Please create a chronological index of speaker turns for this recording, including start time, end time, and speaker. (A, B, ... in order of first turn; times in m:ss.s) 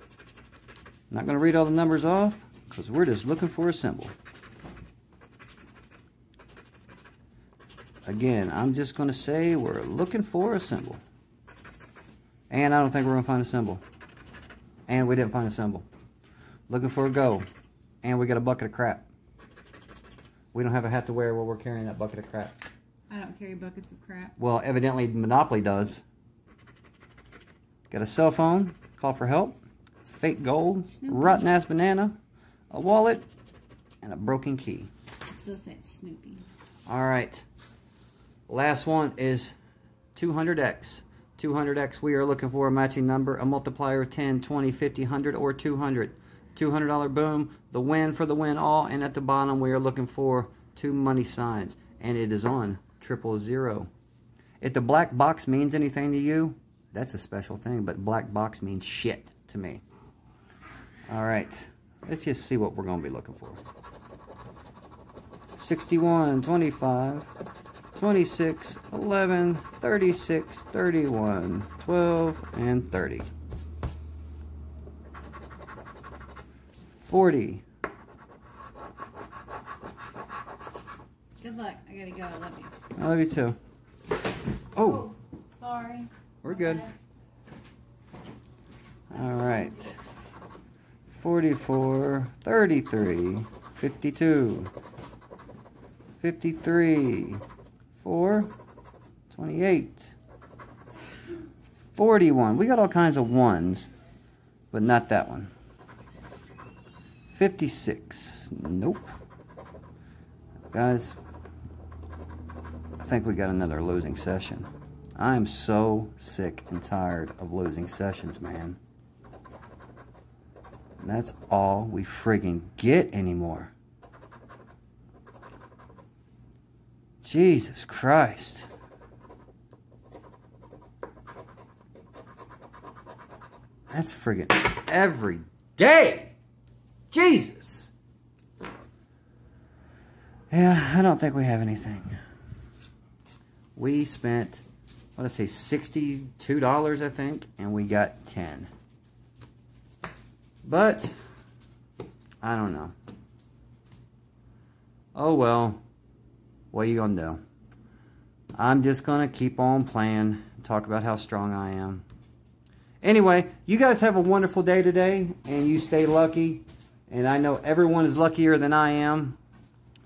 0:01.1-0:04.1 A
0:08.0-0:11.0 A
0:12.5-0:13.8 A
0:14.9-0:15.8 A
0:16.7-0:17.4 A
0:18.0-0:19.0 A
0:20.5-0:22.6 A
0:23.1-0:24.3 B
0:24.4-0:26.0 A
0:27.9-0:29.6 A
0:30.1-0:32.1 A
0:31.0-0:31.4 B
0:32.7-0:33.2 A
0:34.0-0:34.9 A
0:35.4-0:36.4 B
0:36.9-0:37.4 A
0:38.5-0:39.5 A
0:40.1-0:53.9 A
0:54.6-0:59.8 A
1:01.1-1:03.6 A
1:05.6-1:07.3 A
1:07.9-1:13.3 A
1:17.0-1:17.6 A
1:21.4-1:22.7 B
1:23.0-1:23.6 A
1:24.8-1:25.1 A
1:24.8-1:26.9 B
1:26.4-1:26.9 A
1:29.1-1:30.0 A
1:31.1-1:34.7 A
1:36.2-1:37.4 A
1:38.0-1:38.5 A
1:39.3-1:40.2 A
1:41.9-1:43.9 A
1:44.7-1:45.5 A
1:47.3-1:49.1 A
1:50.7-1:51.2 A
1:53.0-1:58.8 A
2:01.0-2:03.7 A
2:07.2-2:08.7 A
2:13.9-2:16.3 A
2:17.1-2:17.9 A
2:20.5-2:22.2 A
2:23.8-2:24.6 A
2:25.2-2:28.7 A
2:30.6-2:31.1 A
2:32.4-2:32.9 A
2:35.1-2:35.8 A
2:36.7-2:37.4 A
2:38.6-2:42.0 A
2:43.0-2:49.4 A